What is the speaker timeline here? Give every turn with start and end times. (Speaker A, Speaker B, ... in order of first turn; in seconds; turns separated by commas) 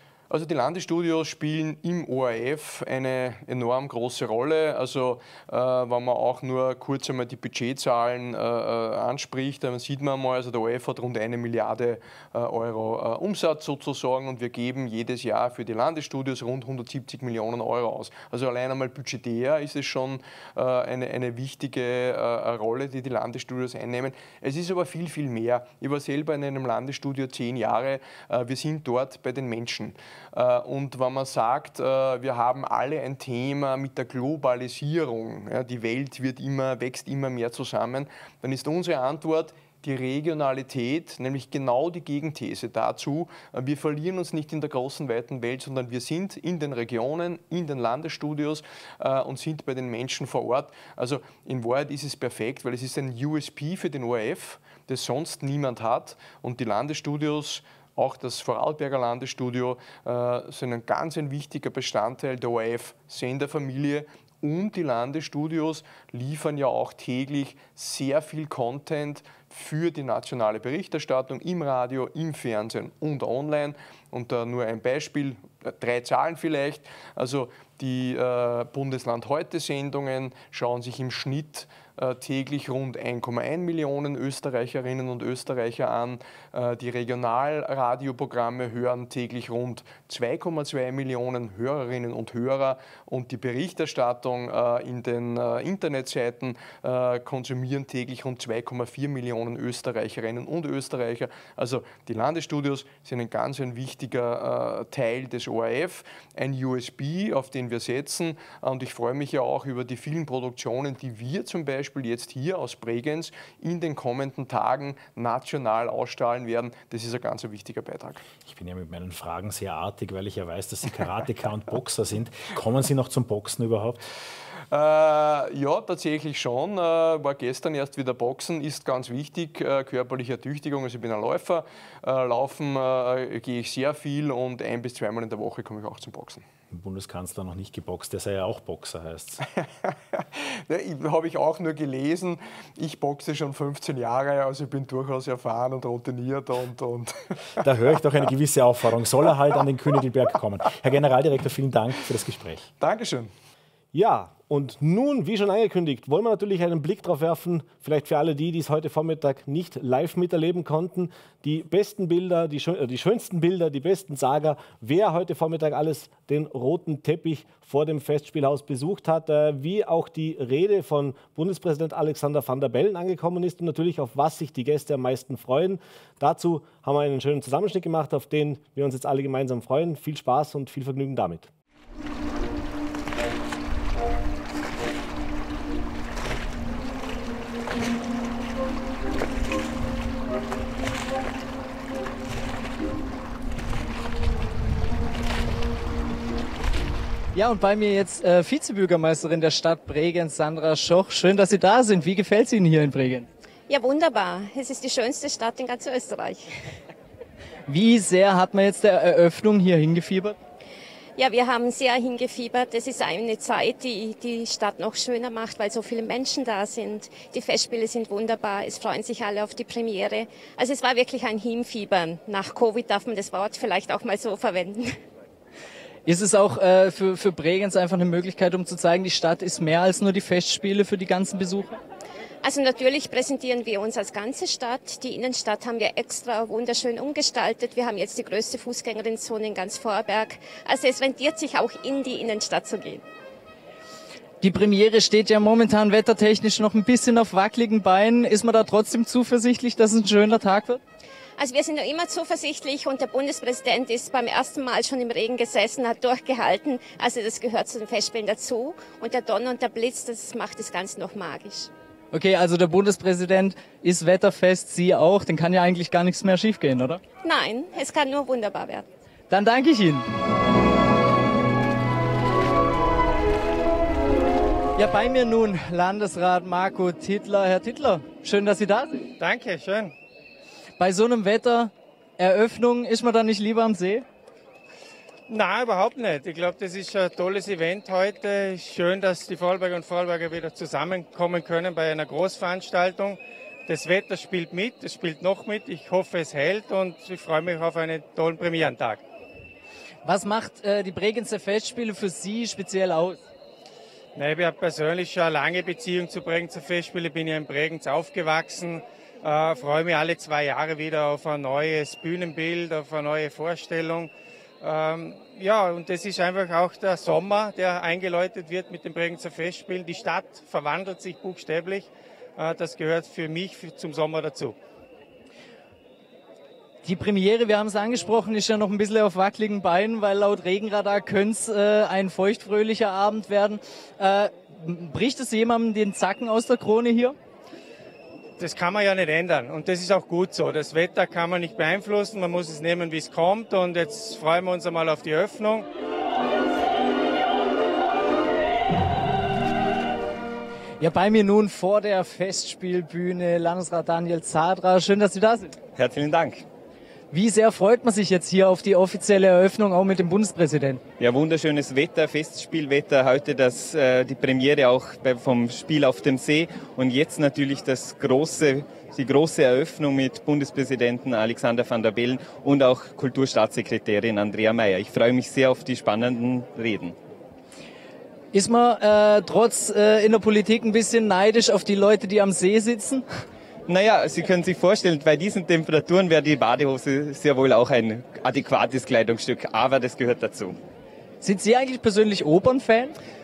Speaker A: 0.3-118.2, Speaker B: 118.4-124.0, Speaker A: 124.7-136.4, Speaker B: 136.7-139.4, Speaker A: 140.7-147.1, Speaker B: 147.6-152.7, Speaker A: 152.8-153.3, Speaker C: 153.9-181.5, Speaker D: 197.3-203.3, Speaker E: 203.7-206.5, Speaker D: 207.7-210.4, Speaker E: 211.2-225.0, Speaker D: 226.1-231.8, Speaker E: 232.4-243.0, Speaker D: 244.4-250.8, Speaker E: 251.4-261.7, Speaker D: 262.1-267.0, Speaker E: 267.2-268.9, Speaker D: 269.3-270.1, Speaker D: 274.8-279.1, Speaker F: 279.2-279.9, Speaker D: 280.8-284.1, Speaker F: 285.3-299.0, Speaker D: 300.1-303.2, Speaker F: 304.1-324.6, Speaker D: 326.8-337.1, Speaker F: 338.4-345.6, Speaker D: 350.8-355.6, Speaker G: 355.7-356.4, Speaker D: 357.1-360.8, Speaker G: 361.0-376.9, Speaker D: 378.3-383.1, Speaker G: 383.7-390.6, Speaker D: 391.2-392.9